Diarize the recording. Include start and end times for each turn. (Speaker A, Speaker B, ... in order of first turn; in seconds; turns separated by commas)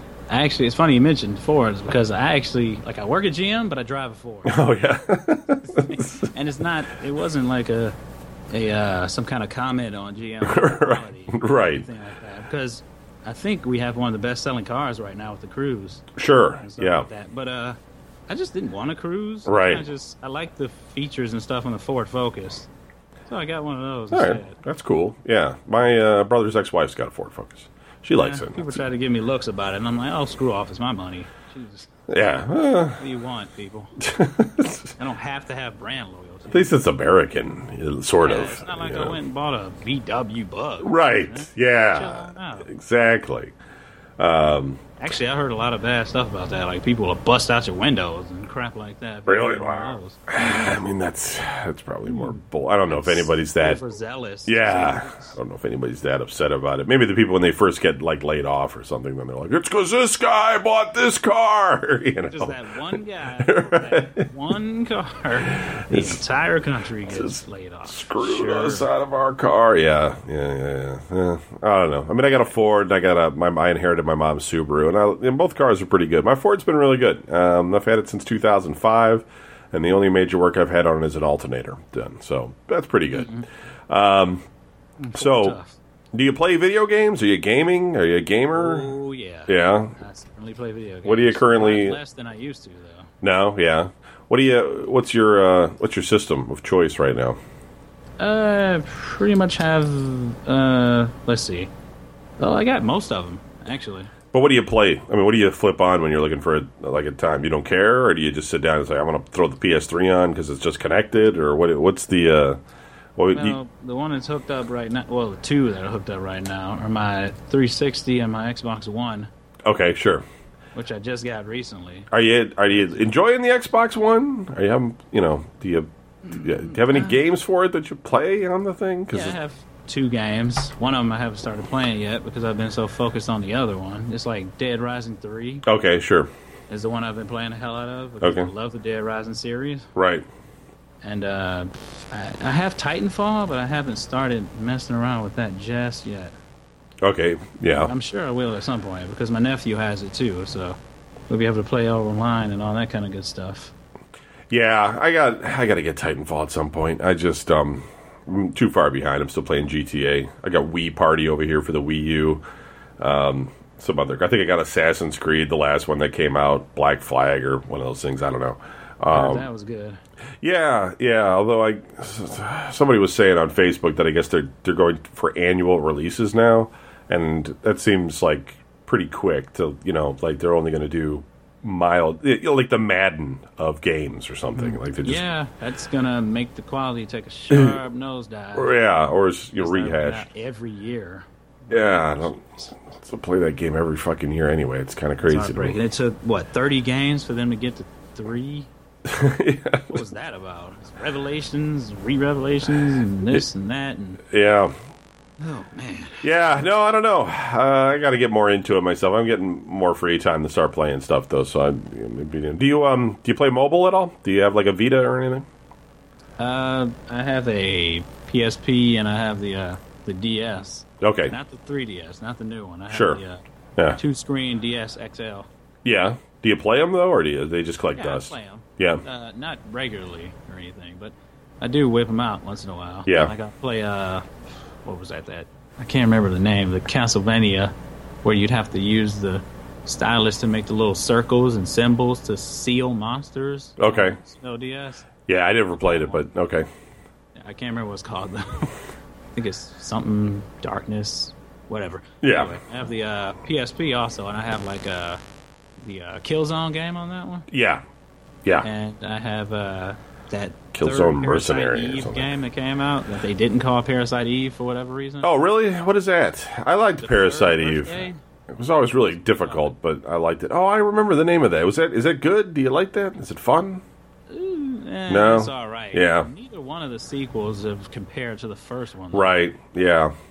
Speaker A: 0.3-4.6, Speaker B: 4.5-6.3, Speaker A: 5.8-8.0, Speaker A: 8.5-22.7, Speaker B: 10.4-11.9, Speaker B: 16.2-17.1, Speaker B: 19.5-19.8, Speaker A: 23.3-24.6, Speaker B: 24.1-28.8, Speaker A: 28.2-31.9, Speaker B: 32.1-33.0, Speaker A: 33.0-33.9, Speaker B: 34.0-34.9, Speaker A: 35.0-36.7, Speaker B: 36.5-39.2, Speaker A: 38.2-42.7, Speaker B: 40.8-43.5, Speaker B: 44.2-44.8, Speaker A: 45.0-50.8, Speaker B: 49.3-53.8, Speaker A: 52.1-55.4, Speaker B: 54.5-62.6, Speaker A: 62.2-68.9, Speaker B: 63.4-64.3, Speaker B: 65.5-66.2, Speaker B: 67.1-84.4, Speaker A: 83.1-83.5, Speaker A: 85.0-85.8, Speaker B: 85.1-85.6, Speaker B: 86.1-88.9, Speaker A: 88.5-93.1, Speaker B: 89.5-90.0, Speaker B: 91.0-92.0, Speaker B: 93.2-97.4, Speaker A: 98.2-101.7, Speaker A: 102.4-104.1, Speaker B: 104.3-112.6, Speaker B: 113.2-113.6, Speaker A: 113.3-119.3, Speaker B: 119.7-120.2, Speaker A: 120.7-122.1, Speaker B: 122.1-129.4, Speaker A: 122.7-123.1, Speaker A: 126.3-127.2, Speaker A: 129.1-135.6, Speaker B: 135.7-136.3, Speaker A: 136.7-139.9, Speaker B: 138.2-138.5, Speaker B: 140.0-140.2, Speaker A: 141.0-146.3, Speaker B: 147.0-147.9, Speaker A: 147.8-150.8, Speaker A: 151.3-153.7, Speaker B: 154.5-162.4, Speaker B: 163.0-169.5, Speaker A: 169.1-170.0, Speaker B: 170.4-185.3, Speaker A: 184.6-188.8, Speaker B: 187.5-187.8, Speaker B: 188.6-190.3, Speaker A: 189.6-192.7, Speaker B: 191.7-195.8, Speaker A: 195.2-198.7, Speaker B: 199.1-200.0, Speaker A: 199.9-204.2, Speaker B: 204.3-204.7, Speaker A: 205.4-206.2, Speaker B: 206.2-215.5, Speaker A: 216.4-223.4, Speaker B: 221.0-221.4, Speaker B: 222.9-223.2, Speaker A: 223.9-225.5, Speaker B: 225.8-229.0, Speaker A: 227.9-234.3, Speaker B: 233.1-233.3, Speaker A: 234.8-245.1, Speaker B: 243.8-244.2, Speaker B: 245.3-246.7, Speaker A: 245.8-246.2, Speaker A: 247.3-248.8, Speaker A: 249.3-255.2, Speaker B: 252.2-252.6, Speaker A: 255.8-257.5, Speaker B: 257.5-257.8, Speaker A: 258.6-265.3, Speaker B: 260.7-262.4, Speaker B: 265.2-273.8, Speaker A: 267.0-268.2, Speaker A: 268.8-269.7, Speaker A: 274.3-279.4, Speaker B: 275.1-276.3, Speaker B: 279.1-280.1